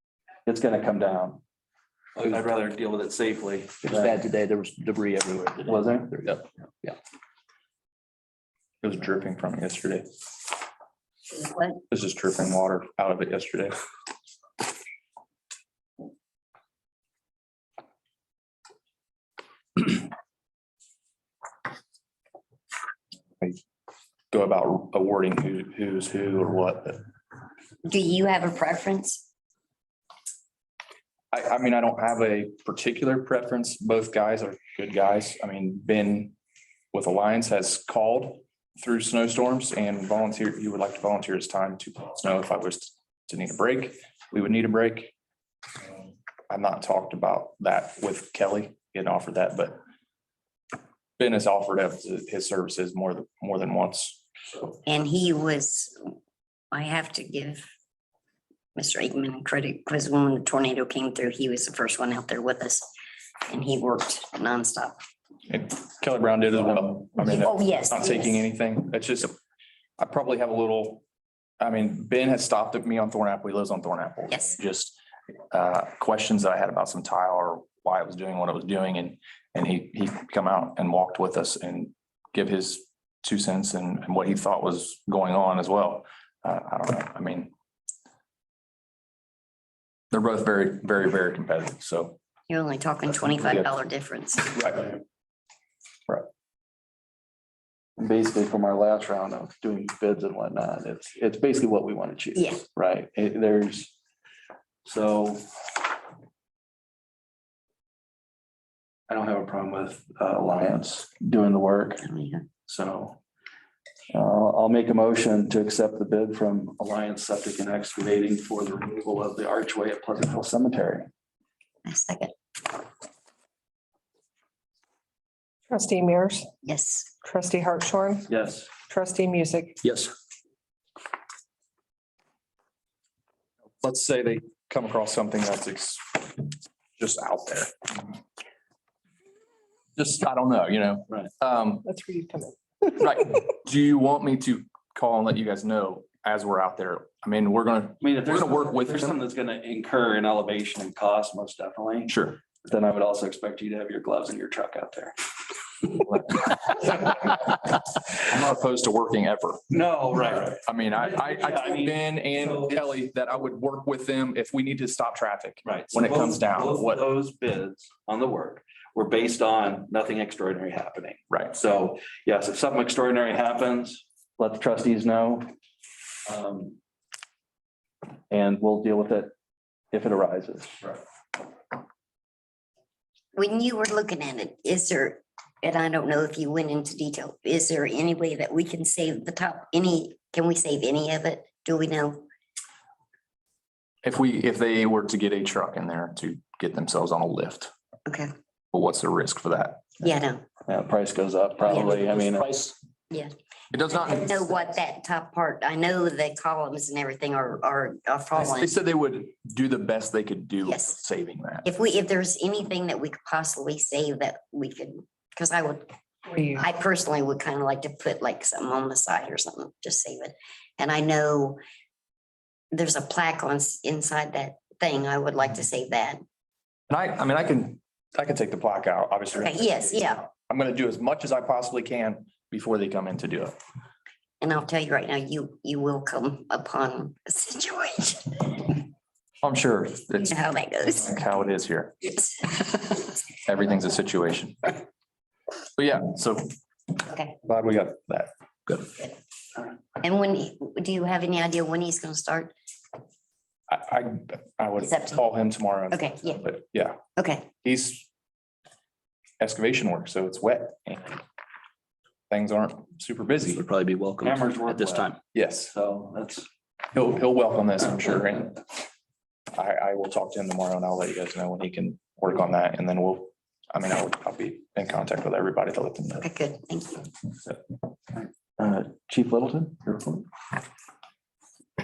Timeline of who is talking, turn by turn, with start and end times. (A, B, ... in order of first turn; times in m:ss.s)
0:00.4-0:01.4 A
0:02.2-0:04.2 A
0:03.8-0:07.0 B
0:05.6-0:06.1 A
0:08.8-0:10.0 C
0:11.3-0:11.8 D
0:11.9-0:13.8 C
0:24.3-0:27.0 C
0:27.8-0:29.2 D
0:31.3-0:36.3 C
0:36.9-0:45.1 C
0:46.0-0:49.8 C
0:51.2-0:54.2 C
0:54.8-0:56.1 D
0:56.7-0:57.6 D
0:58.8-1:02.9 D
1:03.5-1:05.0 D
1:05.5-1:09.4 C
1:07.2-1:08.3 D
1:10.0-1:11.0 C
1:11.6-1:15.0 C
1:15.5-1:27.5 C
1:30.1-1:32.2 C
1:32.5-1:34.5 D
1:33.4-1:33.7 C
1:34.5-1:34.9 C
1:38.0-1:43.9 A
1:42.3-1:42.6 D
1:44.8-1:45.4 A
1:49.1-1:52.0 A
1:52.0-1:52.5 D
1:52.7-1:53.2 A
1:54.1-2:01.1 A
2:01.8-2:02.3 D
2:05.7-2:06.5 E
2:06.6-2:07.2 D
2:07.2-2:08.3 E
2:08.3-2:08.7 A
2:08.9-2:09.8 E
2:09.8-2:10.1 B
2:13.8-2:18.1 C
2:20.0-2:21.8 C
2:21.8-2:22.6 E
2:23.0-2:29.2 C
2:28.0-2:35.1 A
2:32.1-2:32.4 C
2:35.9-2:39.6 C
2:39.7-2:42.8 A
2:40.4-2:47.0 C
2:45.6-2:55.5 A
2:56.2-2:56.8 A
2:58.3-2:59.3 A
2:59.9-3:01.0 A
3:03.3-3:12.2 D
3:14.0-3:17.7 C
3:18.7-3:20.0 C
3:20.0-3:20.4 D
3:20.7-3:22.5 A
3:21.7-3:22.1 D
3:22.4-3:22.7 C
3:23.7-3:24.7 C
3:23.9-3:28.7 D
3:28.3-3:31.7 C
3:30.6-3:30.9 D
3:31.6-3:35.9 D
3:36.3-3:36.7 E
3:36.5-3:41.6 D
3:42.7-3:46.2 D
3:46.9-3:53.5 C
3:49.4-3:50.2 D
3:54.4-3:58.7 D
3:59.4-4:00.3 C
4:00.2-4:01.1 D
4:00.9-4:02.1 C
4:03.4-4:04.8 C
4:05.8-4:06.5 C
4:07.1-4:07.3 D
4:07.4-4:08.9 C
4:10.0-4:12.5 D
4:13.7-4:17.0 C
4:14.8-4:15.2 D
4:15.9-4:16.4 D
4:17.2-4:17.5 D
4:17.6-4:18.1 C
4:19.4-4:21.2 C
4:22.3-4:23.6 C
4:23.5-4:25.2 B
4:24.2-4:25.2 A
4:25.3-4:25.7 C
4:25.7-4:26.5 A
4:26.9-4:28.6 C
4:29.5-4:36.3 C
4:36.2-4:37.1 D
4:38.1-4:40.2 A